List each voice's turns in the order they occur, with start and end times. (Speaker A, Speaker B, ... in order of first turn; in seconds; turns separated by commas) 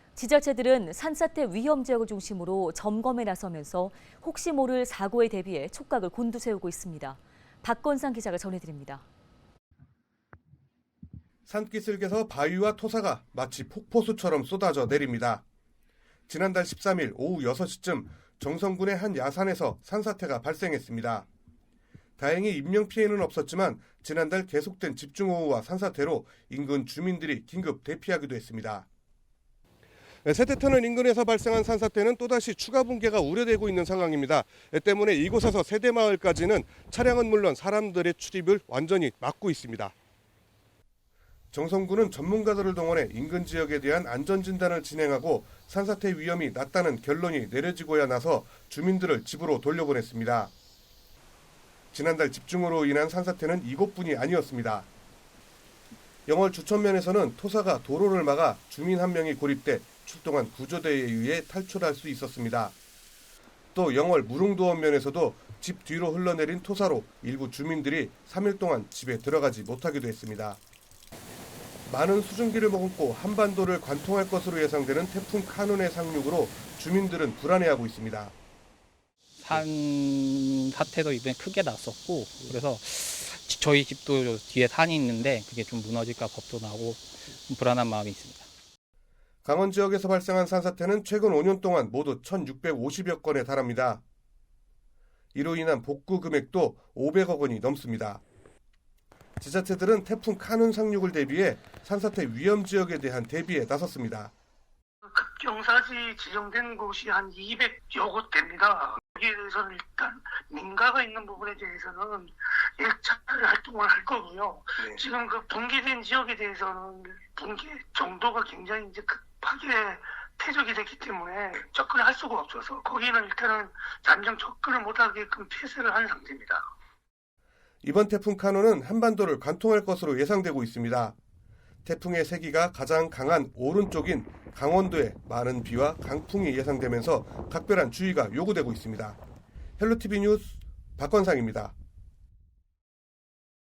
Speaker A: 0.2-9.1, Speaker B: 11.5-15.4, Speaker B: 16.3-21.3, Speaker B: 22.2-28.9, Speaker B: 30.2-39.9, Speaker B: 41.5-50.5, Speaker B: 51.9-54.9, Speaker B: 56.3-62.8, Speaker B: 63.7-70.6, Speaker B: 71.9-78.3, Speaker C: 79.4-88.5, Speaker B: 89.4-94.0, Speaker B: 95.3-98.2, Speaker B: 99.4-104.3, Speaker D: 105.0-126.7, Speaker B: 127.8-131.2, Speaker B: 131.8-139.2, Speaker B: 139.8-141.7